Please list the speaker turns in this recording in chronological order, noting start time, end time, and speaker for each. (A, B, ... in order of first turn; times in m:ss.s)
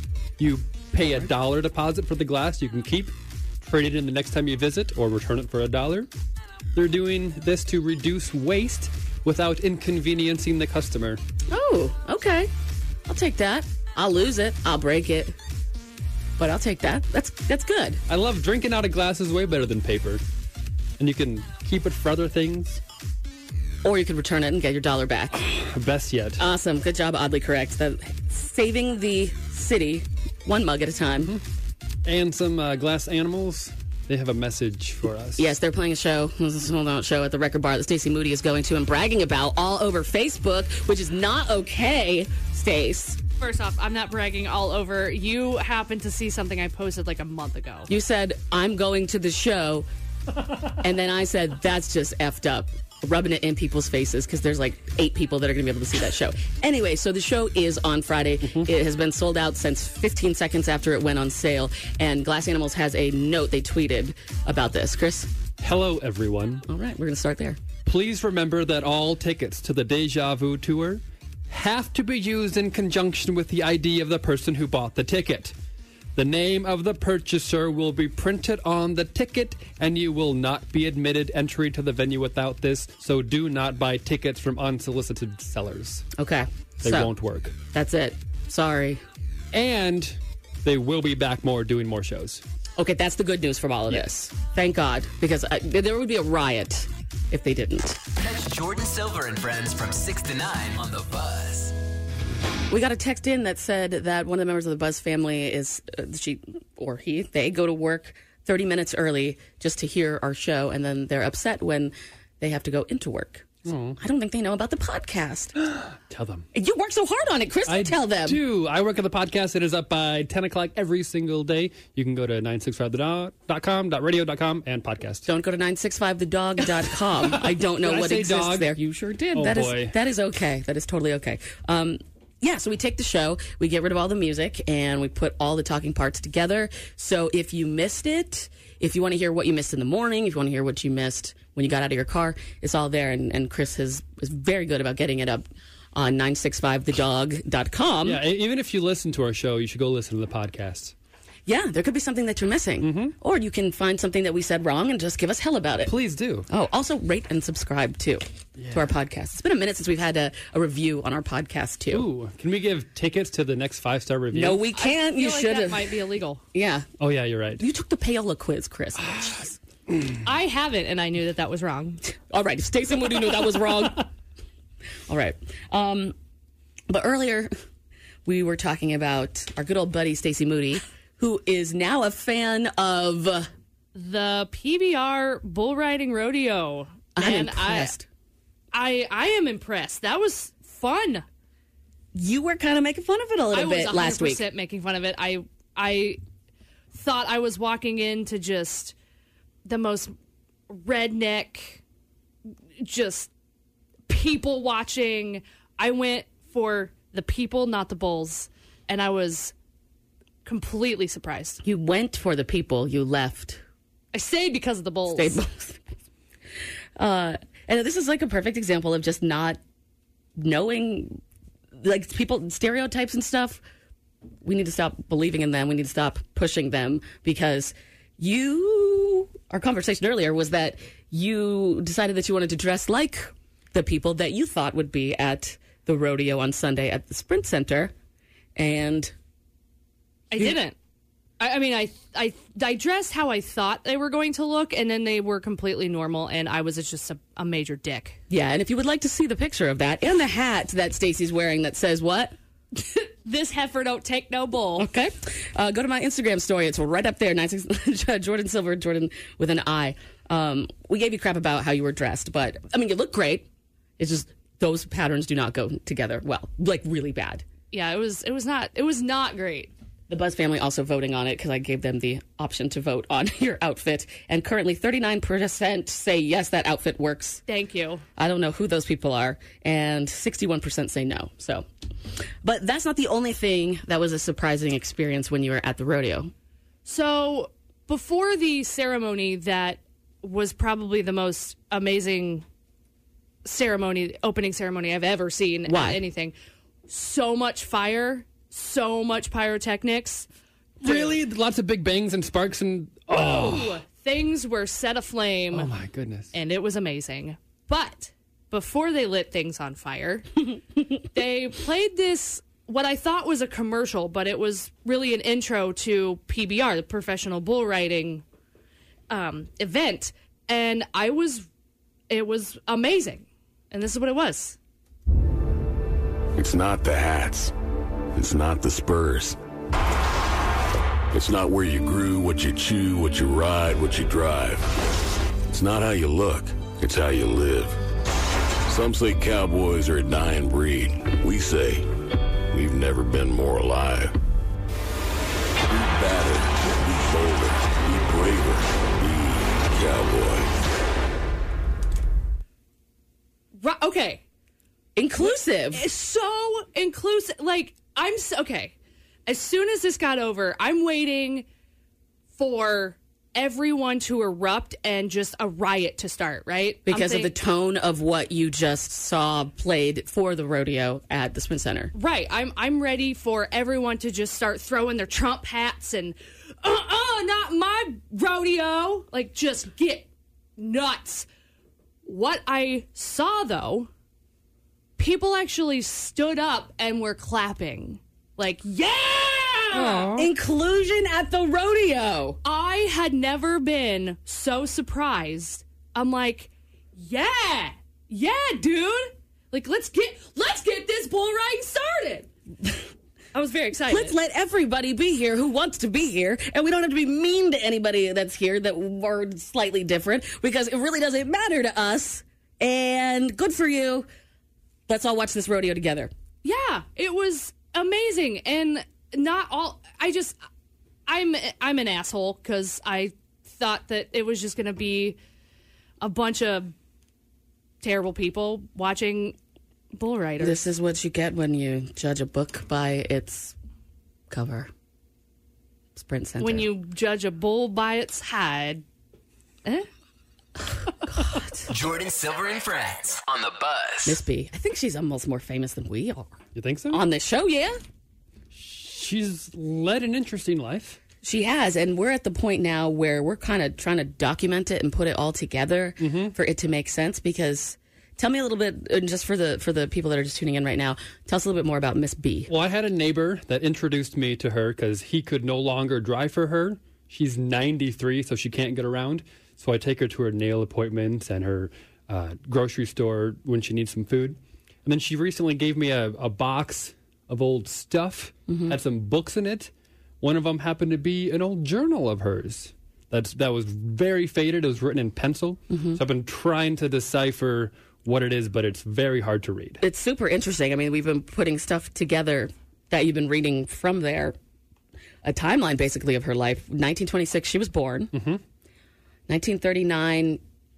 0:00.4-0:06.1 A
0:06.7-0:11.2 A
0:11.5-0:12.5 B
0:13.0-0:15.3 B
0:16.4-0:18.0 B
0:18.1-0:20.2 A
0:21.0-0:22.8 A
0:23.8-0:25.4 B
0:25.5-0:26.4 A
0:26.4-0:31.3 B
0:32.0-0:35.5 A
0:35.4-0:43.2 B
0:43.4-0:47.9 C
0:47.9-0:49.9 B
0:50.8-1:05.3 B
0:58.4-0:58.7 A
1:05.6-1:06.6 A
1:06.7-1:07.6 B
1:07.8-1:15.5 A
1:16.2-1:26.0 A
1:26.2-1:27.1 B
1:26.8-1:27.6 A
1:27.7-1:29.0 B
1:29.5-1:32.4 A
1:32.8-1:38.0 B
1:38.2-1:41.8 D
1:42.7-1:55.5 B
1:53.6-1:54.0 A
1:55.6-1:56.4 A
1:56.5-1:58.4 B
1:57.7-2:05.3 A
2:05.3-2:28.2 B
2:07.2-2:08.7 A
2:09.3-2:10.0 A
2:28.0-2:30.9 A
2:31.4-2:35.9 B
2:32.8-2:33.1 A
2:35.8-2:36.5 A
2:36.5-2:42.1 B
2:38.6-2:38.9 A
2:41.9-2:44.6 A
2:44.3-2:46.0 B
2:44.7-2:46.4 C
2:46.5-2:46.9 B
2:47.0-2:47.6 A
2:47.6-2:49.6 B
2:50.2-2:52.0 C
2:52.3-2:54.1 B
2:55.1-2:56.1 B
2:56.9-2:57.5 B
2:58.2-3:03.5 B
3:04.0-3:07.9 C
3:07.2-3:08.0 B
3:08.7-3:11.2 C
3:12.1-3:14.4 B
3:13.5-3:16.2 C
3:16.9-3:19.0 C
3:19.6-3:20.1 C
3:20.7-3:21.8 C
3:22.8-3:23.3 C
3:24.1-3:29.5 C
3:30.4-3:31.6 C
3:31.6-3:33.6 B
3:34.1-3:35.4 C
3:35.1-3:35.8 B
3:37.0-3:39.6 B
3:40.4-3:41.2 B
3:41.8-3:43.6 B
3:44.4-3:57.9 B
3:58.6-3:59.1 B
4:00.3-4:00.8 C
4:01.4-4:08.2 C
4:08.3-4:12.3 B
4:12.9-4:14.9 C
4:14.8-4:23.5 B
4:24.0-4:27.4 B
4:27.7-4:29.7 C
4:30.1-4:37.4 B
4:37.5-4:38.0 C
4:38.2-4:41.6 B
4:42.4-4:46.3 B
4:46.9-4:52.4 C
4:53.4-4:56.3 C
4:55.7-4:56.0 B
4:56.9-5:00.3 C
5:00.8-5:01.2 C
5:00.8-5:03.8 A
5:03.1-5:05.7 C
5:05.5-5:06.3 A
5:06.3-5:10.3 C
5:11.1-5:18.2 C
5:19.1-5:21.5 C
5:22.1-5:24.6 C
5:26.4-5:27.5 E
5:28.1-5:29.4 E
5:31.1-5:34.8 E
5:35.5-5:37.8 E
5:38.7-5:41.9 E
5:42.5-5:44.1 E
5:45.6-5:50.5 E
5:53.6-5:54.2 C
5:55.0-5:55.8 B
5:55.2-5:58.7 C
5:59.3-6:01.4 C
6:02.4-6:07.3 C
6:06.9-6:11.9 B
6:11.9-6:21.3 C
6:22.0-6:23.9 C
6:25.0-6:30.3 C
6:29.7-6:32.4 B
6:32.4-6:42.3 C
6:43.3-6:44.1 C
6:43.9-6:54.1 B
6:54.9-6:56.1 B
6:56.4-7:00.4 C
7:01.1-7:05.2 C
7:06.0-7:06.7 C
7:07.8-7:09.4 C
7:09.9-7:10.6 C
7:10.4-7:13.6 B
7:14.3-7:14.7 B
7:16.0-7:16.7 B
7:16.4-7:18.8 C
7:21.0-7:21.7 B
7:21.7-7:24.2 D
7:24.0-7:26.4 B
7:26.6-7:27.0 A
7:26.9-7:27.8 B
7:28.5-7:31.0 A
7:31.2-7:42.5 B
7:36.0-7:36.3 A
7:42.5-7:59.7 A
7:58.5-7:58.8 B
8:00.2-8:09.8 A
8:05.7-8:06.0 B
8:09.8-8:14.3 B
8:15.2-8:18.1 B
8:18.1-8:18.4 A
8:19.3-8:20.4 B